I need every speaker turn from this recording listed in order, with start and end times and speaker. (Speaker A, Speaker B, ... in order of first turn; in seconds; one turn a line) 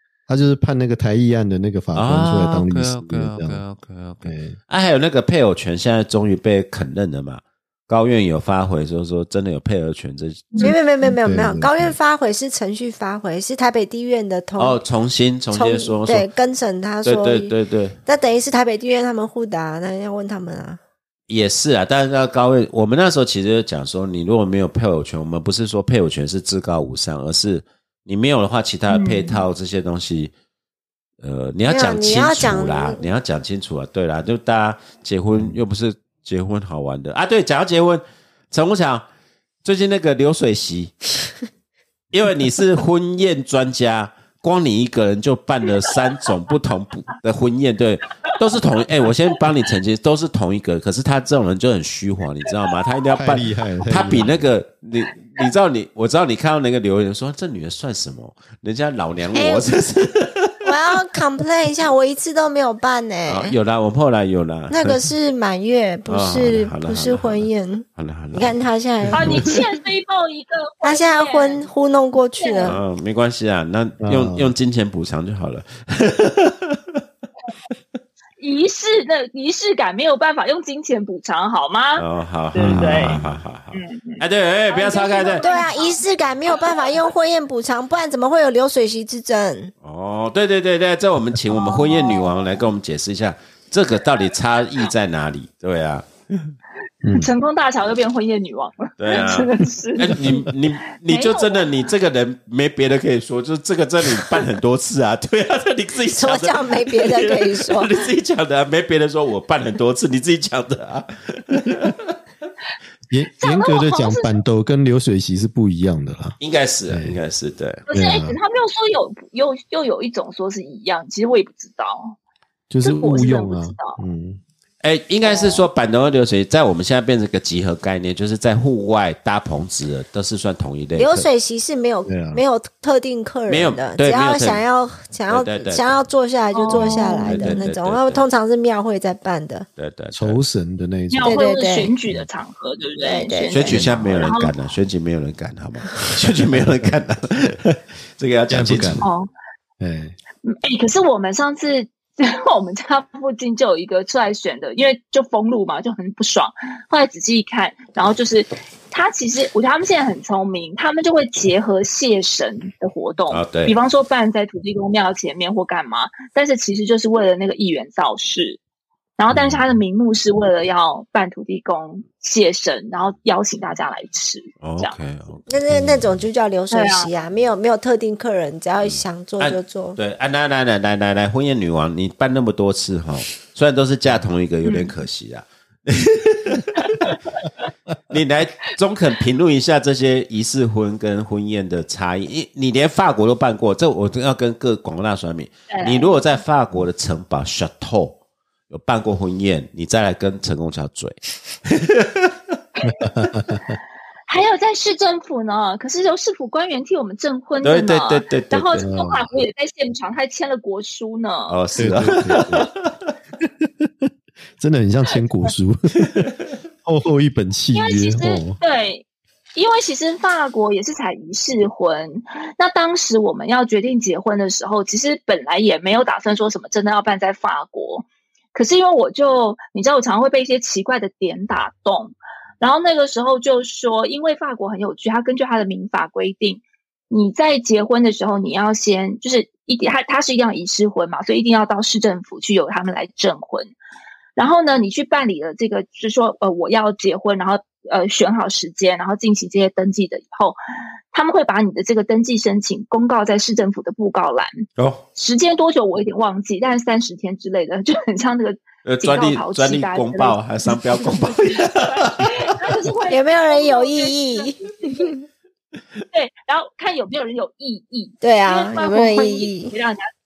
Speaker A: 0.3-3.6
Speaker B: 1.9-10.7
Speaker A: 4.2-4.5
Speaker C: 10.6-14.8
Speaker A: 11.1-11.9
Speaker B: 14.6-16.3
Speaker C: 15.5-17.5
Speaker B: 17.0-18.0
Speaker C: 18.1-20.8
Speaker B: 21.3-30.3
Speaker D: 28.9-29.4
Speaker B: 31.2-39.0
Speaker C: 31.7-33.0
Speaker B: 39.6-41.1
Speaker B: 42.1-61.0
Speaker A: 53.1-54.4
Speaker C: 59.3-59.7
Speaker C: 60.6-63.5
Speaker B: 63.3-64.8
Speaker C: 64.7-69.6
Speaker B: 66.1-68.6
Speaker A: 69.1-69.4
Speaker D: 69.1-71.6
Speaker C: 70.8-72.8
Speaker D: 72.4-72.8
Speaker B: 72.6-77.0
Speaker A: 74.0-74.5
Speaker D: 78.4-83.2
Speaker B: 82.0-85.4
Speaker A: 82.6-83.4
Speaker D: 83.7-86.9
Speaker C: 85.4-89.7
Speaker B: 89.8-96.5
Speaker D: 91.5-92.3
Speaker A: 97.0-97.3
Speaker D: 97.1-101.7
Speaker B: 99.0-112.1
Speaker C: 106.1-108.0
Speaker A: 113.1-116.3
Speaker D: 113.4-114.4
Speaker B: 116.4-117.8
Speaker A: 116.9-117.2
Speaker D: 117.9-122.2
Speaker A: 117.9-118.4
Speaker A: 122.7-124.4
Speaker D: 122.8-124.0
Speaker B: 124.8-131.3
Speaker D: 125.3-125.6
Speaker C: 130.9-139.7
Speaker A: 132.1-132.4
Speaker B: 133.5-134.6
Speaker B: 135.3-136.0
Speaker D: 136.5-137.5
Speaker B: 136.7-138.2
Speaker B: 139.8-140.4
Speaker A: 140.1-141.3
Speaker D: 141.1-144.5
Speaker C: 141.2-141.9
Speaker C: 143.0-143.9
Speaker B: 143.5-149.1
Speaker A: 148.5-149.1
Speaker D: 149.0-149.3
Speaker A: 149.8-150.2
Speaker D: 150.4-168.6
Speaker B: 163.3-163.7
Speaker D: 169.2-175.0
Speaker B: 174.6-175.9
Speaker C: 175.5-180.0
Speaker D: 176.7-177.1
Speaker B: 178.8-186.9
Speaker D: 184.6-184.9
Speaker D: 186.7-187.2
Speaker B: 188.1-202.3
Speaker D: 195.7-196.2
Speaker D: 202.8-203.0
Speaker A: 202.9-203.7
Speaker D: 204.3-211.6
Speaker B: 207.6-208.8
Speaker A: 208.8-209.2
Speaker B: 211.5-212.8
Speaker A: 211.8-212.7
Speaker A: 213.4-216.3
Speaker A: 216.8-218.6
Speaker D: 217.7-219.0
Speaker D: 219.6-243.7
Speaker D: 244.3-250.6
Speaker D: 251.1-254.5
Speaker B: 254.8-255.0
Speaker D: 255.2-260.4
Speaker B: 258.8-262.4
Speaker D: 261.5-265.1
Speaker C: 263.1-265.2
Speaker D: 266.1-270.1
Speaker C: 268.2-269.7